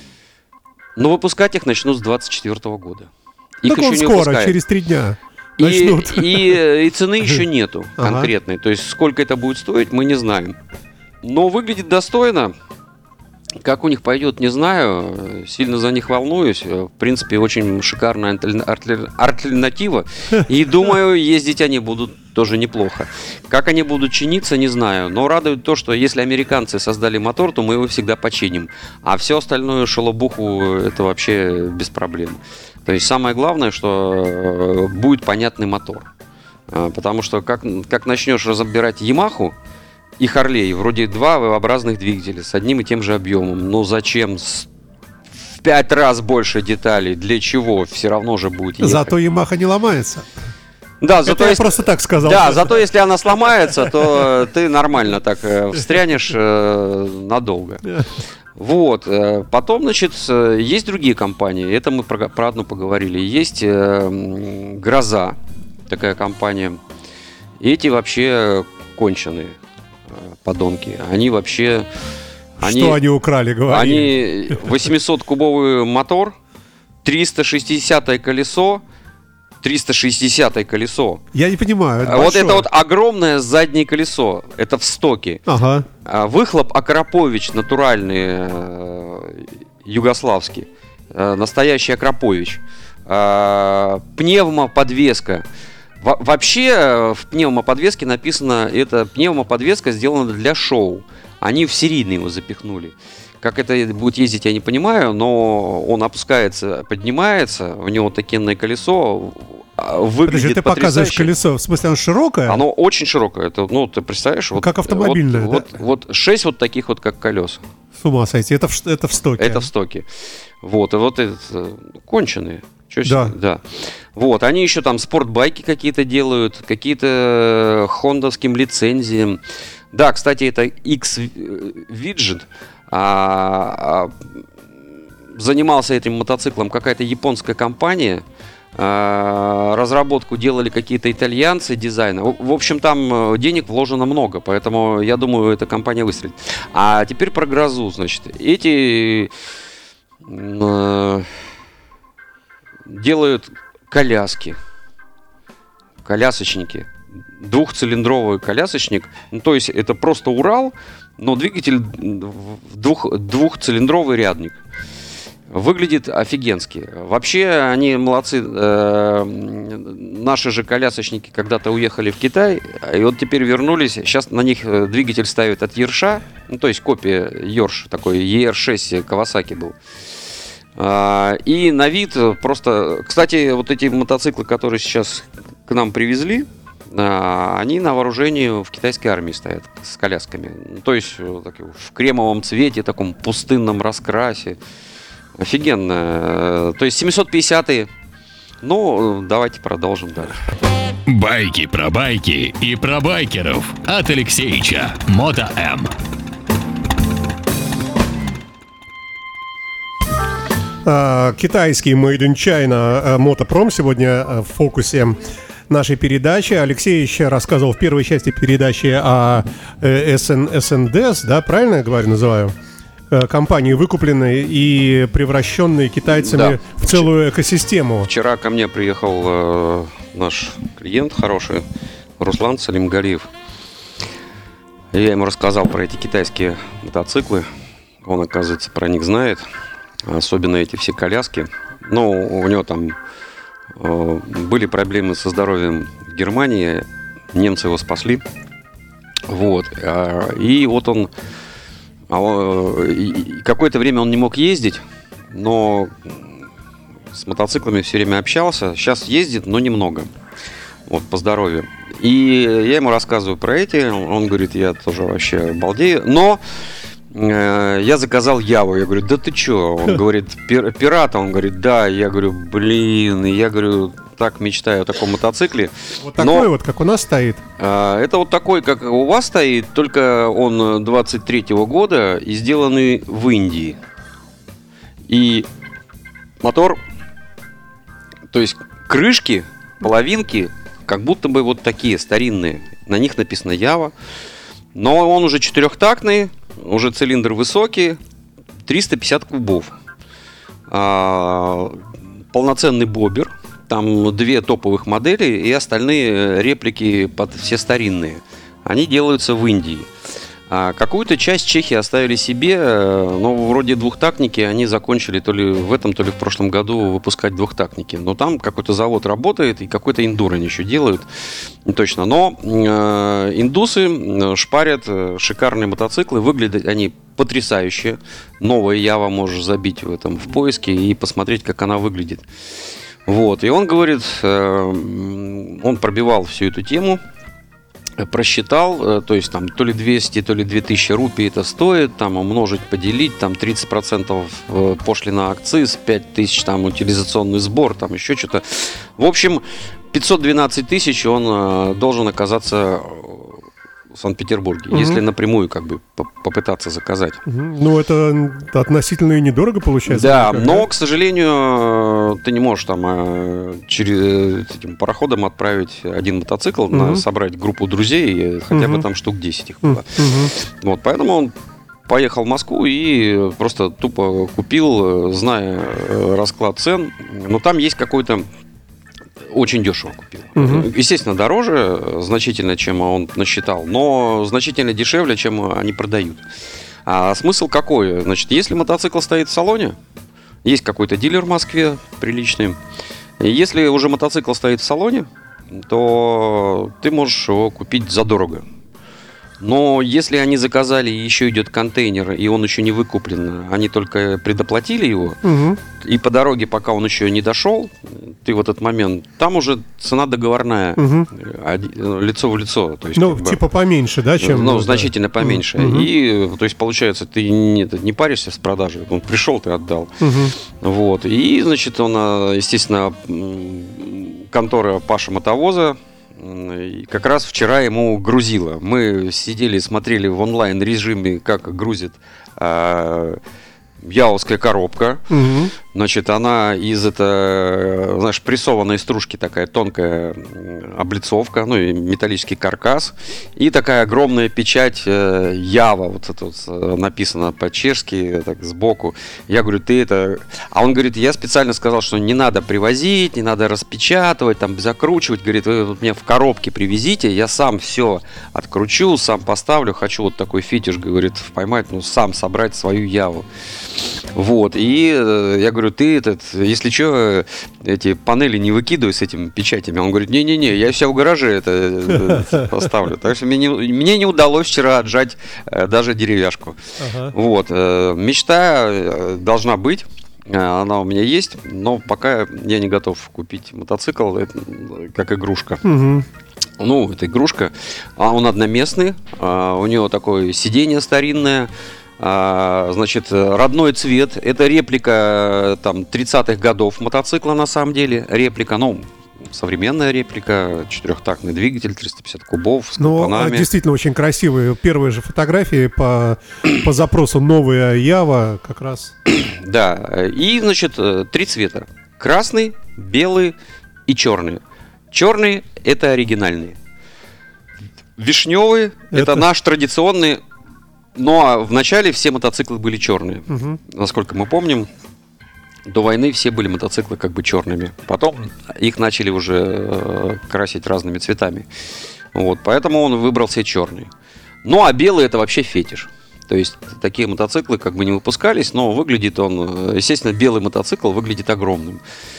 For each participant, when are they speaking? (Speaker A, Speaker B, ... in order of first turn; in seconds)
Speaker A: 0.9-3.1, 3.6-4.5, 5.6-10.6, 11.2-12.5, 13.6-36.1, 36.7-39.5, 40.2-44.7, 45.5-49.1, 51.0-58.0, 58.5-66.8, 67.6-69.5, 70.2-71.9, 72.6-73.0, 73.7-76.3, 77.0-78.8, 79.6-81.2, 82.0-85.4, 86.0-95.4, 96.0-111.3, 112.5-117.6, 119.4-120.1, 120.6-129.4, 129.9-134.2, 135.3-138.2, 138.8-149.3, 150.2-151.3, 152.8-154.6, 156.0-164.6, 165.5-179.8, 180.8-194.6, 195.4-197.9, 198.6-200.4, 226.1-227.1, 228.1-231.6, 232.2-233.3, 234.9-237.5, 238.0-239.4, 240.1-243.0, 243.8-248.2, 249.3-251.1, 252.1-256.2, 257.1-260.1, 260.9-266.4, 267.1-276.5, 277.6-283.8, 285.1-285.5, 286.4-286.8, 288.3-293.9, 294.7-298.0, 298.6-299.7, 300.7-309.9, 310.5-321.1, 321.6-332.2, 333.1-337.0, 338.0-357.2, 359.9-371.3, 371.9-378.2, 379.3-386.2, 386.9-389.8, 390.4-392.6, 393.2-398.4, 399.4-405.2, 405.7-413.4, 414.2-433.2, 433.8-463.3, 464.1-476.6, 477.1-485.6, 486.6-503.5, 509.1-513.4, 513.9-514.4, 514.9-516.5, 518.0-520.2, 520.9-524.7, 525.7-531.5, 532.1-533.9, 534.4-541.8
Speaker B: 3.6-6.6, 8.0-8.3, 48.8-50.3, 51.2-52.8, 72.6-74.7, 81.3-82.7, 85.5-85.8, 110.2-112.6, 114.6-115.7, 118.0-119.7, 123.0-123.3, 210.8-215.2, 215.7-222.5, 223.1-228.1, 276.0-277.4, 354.7-355.0, 357.2-360.7, 366.7-367.0, 368.5-368.9, 369.6-370.3, 380.4-380.7, 405.2-405.6, 410.8-411.1, 412.9-415.9, 420.0-420.3, 435.1-435.5, 476.8-477.1, 485.6-486.1, 502.8-508.9, 518.9-519.2, 523.3-523.6
Speaker C: 201.1-205.9